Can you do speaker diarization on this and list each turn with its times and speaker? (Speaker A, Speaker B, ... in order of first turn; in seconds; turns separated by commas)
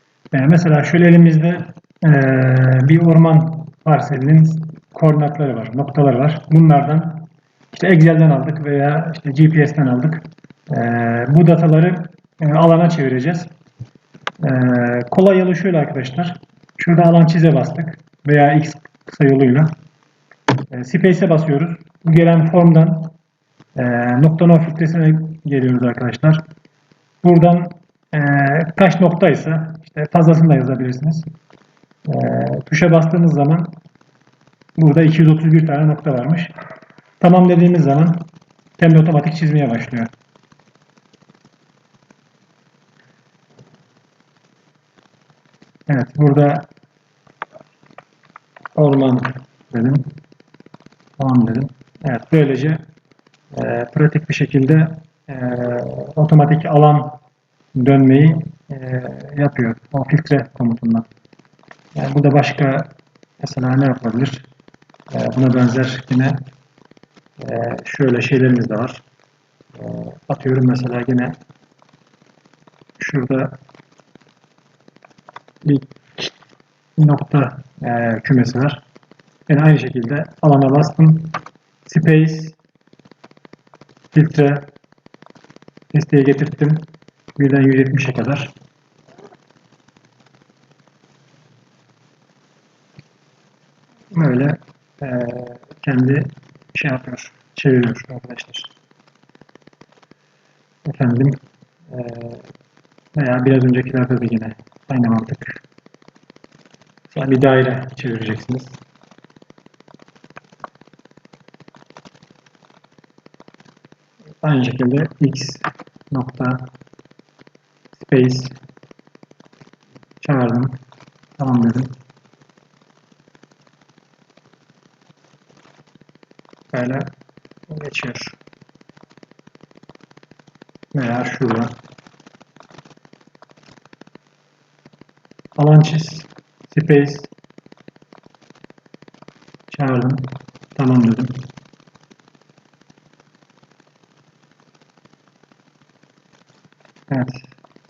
Speaker A: 0.3-13.5, Speaker A: 14.4-19.7, Speaker A: 20.7-23.1, Speaker A: 23.8-26.4, Speaker A: 27.2-31.3, Speaker A: 32.1-33.7, Speaker A: 34.8-36.5, Speaker A: 37.2-38.3, Speaker A: 38.8-40.1, Speaker A: 45.9-46.7, Speaker A: 48.8-50.1, Speaker A: 51.2-52.8, Speaker A: 53.5-57.2, Speaker A: 57.8-61.1, Speaker A: 62.0-64.5, Speaker A: 65.1-66.4, Speaker A: 67.4-69.0, Speaker A: 69.8-71.4, Speaker A: 73.0-73.6, Speaker A: 75.6-76.3, Speaker A: 77.0-78.8, Speaker A: 79.5-82.6, Speaker A: 84.1-84.7, Speaker A: 85.9-88.5, Speaker A: 94.1-98.7, Speaker A: 100.9-102.5, Speaker A: 103.2-105.6, Speaker A: 107.1-108.8, Speaker A: 114.4-116.7, Speaker A: 118.0-118.6, Speaker A: 120.2-120.8, Speaker A: 121.4-121.9, Speaker A: 126.7-127.1, Speaker A: 127.7-128.4, Speaker A: 130.9-131.7, Speaker A: 135.6-137.3, Speaker A: 139.7-141.4, Speaker A: 147.1-147.5